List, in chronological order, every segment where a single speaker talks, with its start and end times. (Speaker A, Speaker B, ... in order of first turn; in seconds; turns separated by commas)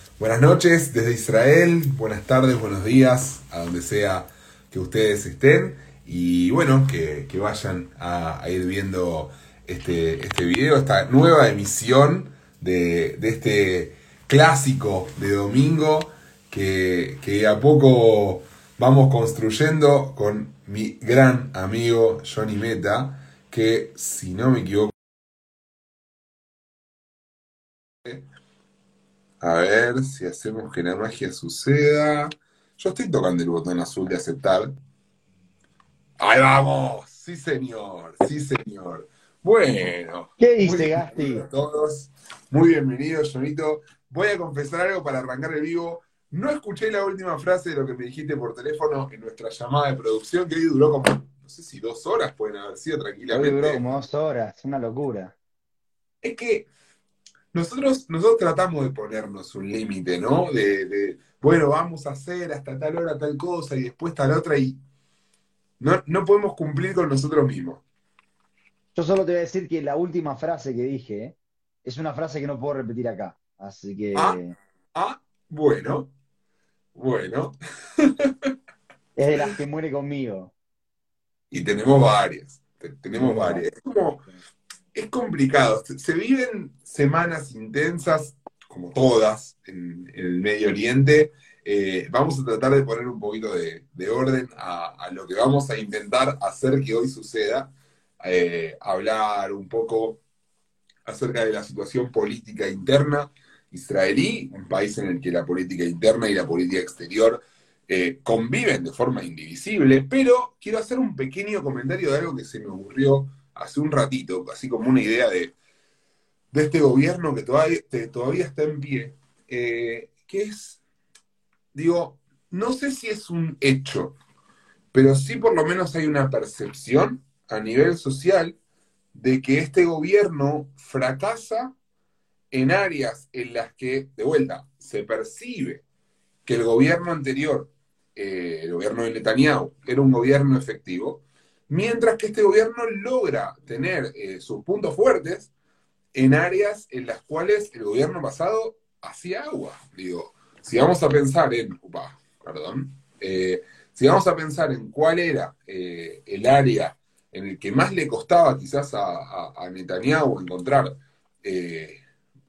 Speaker A: 0.2-24.9, Speaker A: 29.4-34.7, Speaker A: 36.2-53.8, Speaker B: 40.4-41.4, Speaker B: 53.3-55.3, Speaker A: 56.2-56.7, Speaker A: 57.5-64.8, Speaker A: 65.8-67.8, Speaker B: 68.9-74.5, Speaker A: 74.1-74.4, Speaker A: 74.9-76.1, Speaker A: 76.9-78.3, Speaker B: 79.2-80.5, Speaker A: 81.5-84.2, Speaker B: 83.1-83.6, Speaker A: 84.9-100.2, Speaker A: 101.0-115.5, Speaker A: 116.5-120.8, Speaker A: 121.7-124.2, Speaker A: 124.9-128.6, Speaker A: 129.1-131.7, Speaker A: 132.5-135.8, Speaker A: 136.4-145.5, Speaker A: 146.1-162.0